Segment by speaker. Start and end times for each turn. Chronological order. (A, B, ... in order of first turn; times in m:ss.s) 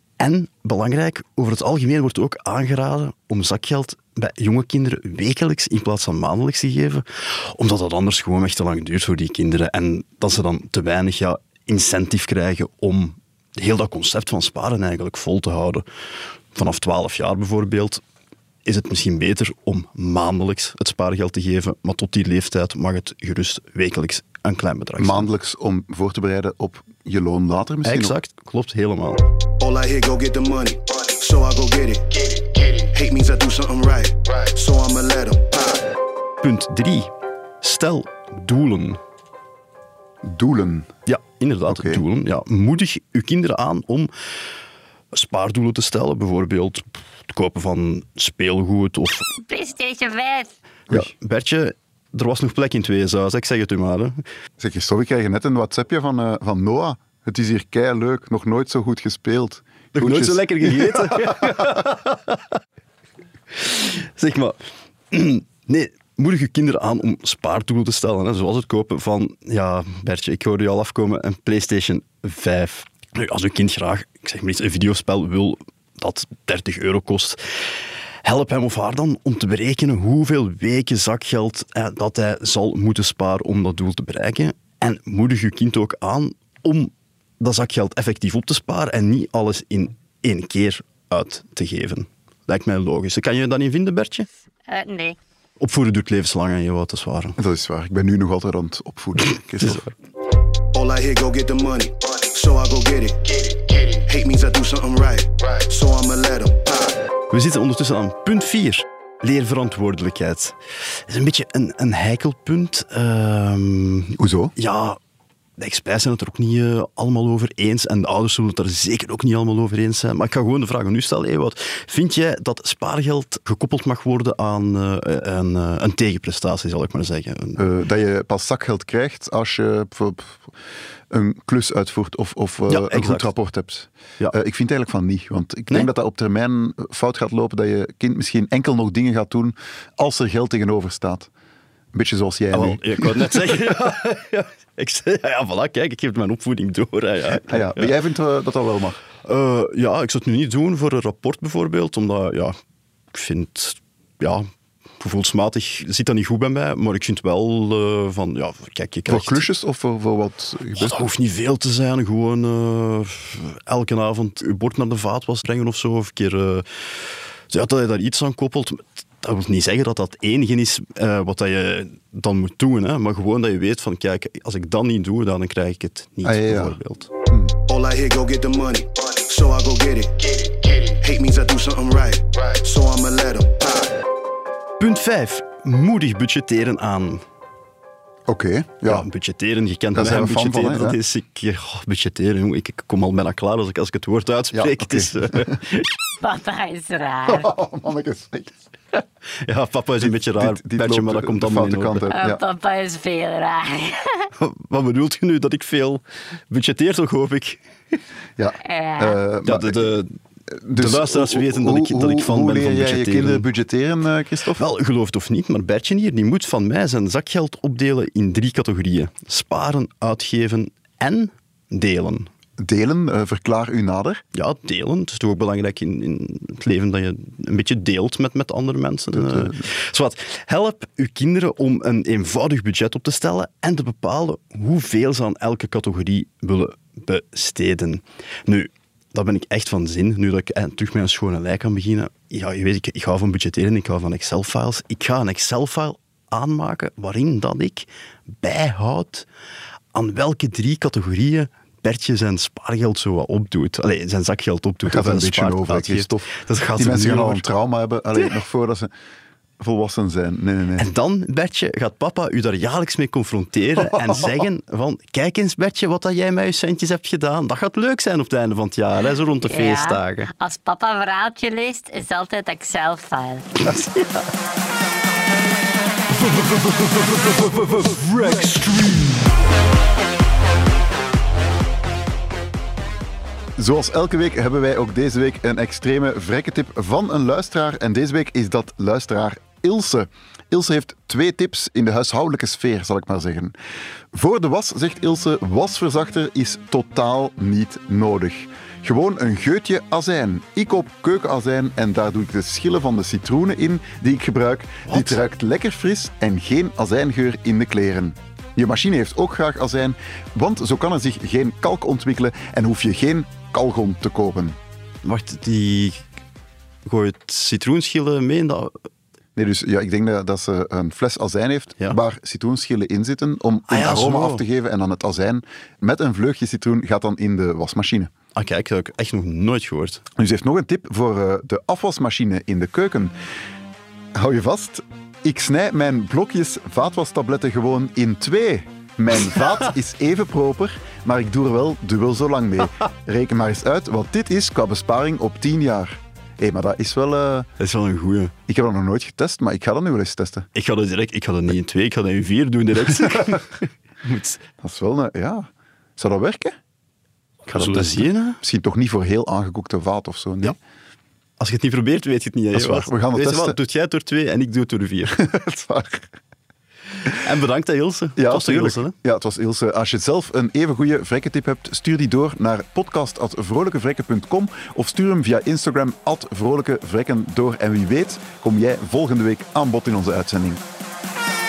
0:00.2-0:15.8 A
0:16.5-0:18.0 A
0:18.6-0:25.3 A
0:25.0-0:28.2 B
0:27.8-0:29.2 A
0:29.6-0:35.9 C
0:36.4-0:39.0 A
0:40.2-0:41.0 B
0:41.0-0:44.1 A
0:41.7-0:42.0 B
0:45.1-0:49.3 A
0:49.4-0:50.5 D
0:50.9-0:54.2 A
0:54.6-1:01.8 B
0:59.9-1:02.5 A
1:03.5-1:04.6 A
1:05.1-1:34.3 A
1:34.7-1:35.2 D
1:35.6-1:37.4 A
1:37.4-1:39.8 B
1:39.6-1:39.9 A
1:40.7-1:47.0 C
1:47.3-1:55.0 A
1:54.2-1:54.5 B
1:55.6-2:07.6 A
2:07.6-2:10.5 B
2:11.1-2:21.3 B
2:12.7-2:13.3 A
2:21.9-2:23.7 B
2:22.5-2:27.9 A
2:27.4-2:29.0 B
2:29.2-2:32.6 A
2:33.1-2:34.5 A
2:35.0-2:39.4 A
2:39.1-2:41.1 B
2:40.8-2:57.1 A
2:56.2-2:56.8 B
2:57.3-2:57.5 B
2:57.7-3:04.0 C
3:04.8-3:07.2 A
3:08.3-3:09.1 B
3:08.8-3:15.9 A
3:09.9-3:11.0 B
3:14.5-3:15.6 B
3:16.2-3:17.5 D
3:17.3-3:18.6 B
3:19.4-3:22.1 A
3:20.0-3:22.4 B
3:22.1-3:24.3 D
3:24.4-3:27.6 A
3:28.4-3:29.9 B
3:28.6-3:29.2 D
3:29.4-3:30.2 A
3:30.5-3:34.6 B
3:30.7-3:33.4 A
3:34.6-3:42.3 A
3:42.6-3:44.2 B
3:44.3-4:09.3 A
3:49.1-3:49.7 B
4:09.9-4:17.5 A
4:14.8-4:18.9 B
4:19.6-4:20.9 B
4:20.8-4:30.3 A
4:23.9-4:24.2 B
4:29.4-4:33.6 D
4:33.6-4:34.2 A
4:36.2-4:39.2 A
4:43.6-4:53.5 B
4:54.1-5:14.6 B
5:04.9-5:05.2 A
5:15.0-5:16.0 A
5:16.8-5:18.7 A
5:19.4-5:28.1 B
5:23.7-5:24.4 A
5:28.3-5:30.0 A
5:30.2-5:33.1 B
5:34.1-5:47.5 B
5:47.6-5:48.3 A
5:48.5-5:50.5 B
5:50.5-5:54.4 A
5:52.9-5:53.4 B
5:54.6-5:56.6 B
5:57.5-6:00.6 B
5:57.5-5:58.4 A
6:01.4-6:05.2 A
6:02.5-6:03.6 B
6:05.1-6:06.2 B
6:07.0-6:09.0 A
6:08.2-6:20.6 B